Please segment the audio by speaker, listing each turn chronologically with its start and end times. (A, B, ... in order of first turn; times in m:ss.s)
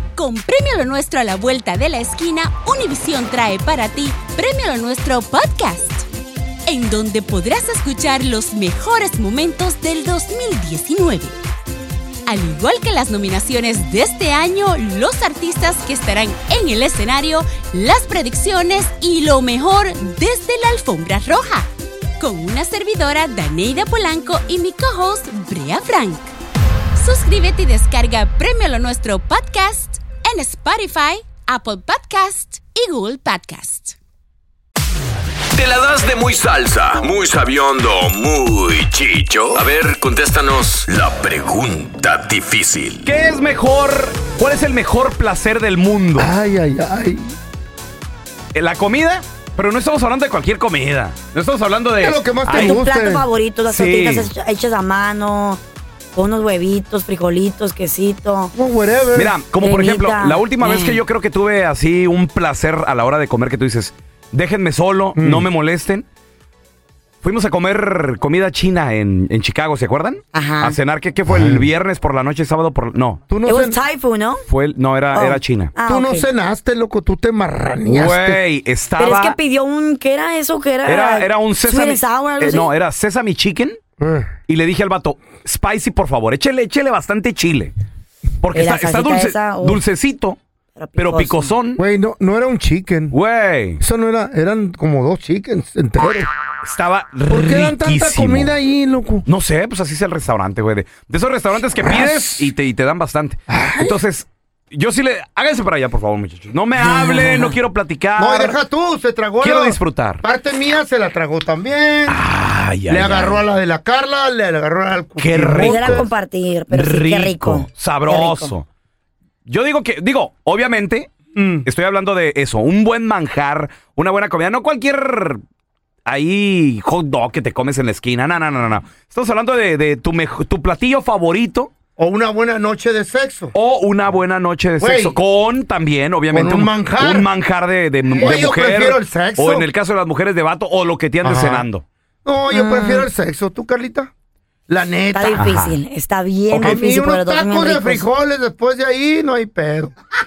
0:00.2-0:06.1 A
0:06.7-0:11.4 A
0:12.3-0:21.7 A
0:22.2-0:26.3 A
0:27.0-0:34.0 A
0:35.7-0:43.0 B
0:43.0-0:46.3 C
0:46.2-0:47.4 D
0:48.6-0:52.8 C
0:52.0-0:53.2 D
0:52.5-0:55.6 E
0:53.6-0:54.3 C
0:56.2-0:58.5 E
0:58.6-0:59.4 D
0:59.2-1:06.0 C
0:59.6-1:01.0 E
1:05.2-1:05.5 D
1:07.2-1:13.2 C
1:10.3-1:10.8 E
1:11.3-1:11.7 D
1:13.3-1:13.8 D
1:13.4-1:14.4 E
1:14.5-1:15.8 C
1:15.1-1:16.3 E
1:15.8-1:18.4 D
1:17.9-1:19.4 C
1:19.0-1:22.7 E
1:20.9-1:23.8 C
1:24.0-1:24.4 D
1:24.5-1:27.7 C
1:28.4-1:30.4 C
1:28.5-1:29.8 E
1:30.8-1:31.6 E
1:31.0-1:31.8 C
1:31.8-1:33.2 D
1:33.1-1:33.8 C
1:33.8-1:36.3 D
1:36.6-1:38.5 C
1:37.3-1:39.3 D
1:39.3-1:48.6 C
1:41.8-1:42.5 D
1:43.5-1:44.0 D
1:46.8-1:47.6 E
1:48.2-1:52.2 D
1:49.4-1:50.2 C
1:52.1-1:53.4 C
1:52.9-1:56.1 D
1:55.2-1:56.0 C
1:55.5-1:58.6 E
1:56.7-1:58.7 C
1:59.5-2:05.4 C
2:01.4-2:01.7 D
2:06.1-2:11.7 C
2:12.0-2:13.5 D
2:13.5-2:21.8 C
2:14.8-2:15.2 D
2:16.3-2:17.3 D
2:18.2-2:19.7 D
2:21.2-2:21.7 D
2:22.2-2:24.1 D
2:22.5-2:23.1 E
2:24.7-2:25.4 D
2:25.1-2:28.1 E
2:25.4-2:25.8 C
2:26.6-2:29.9 D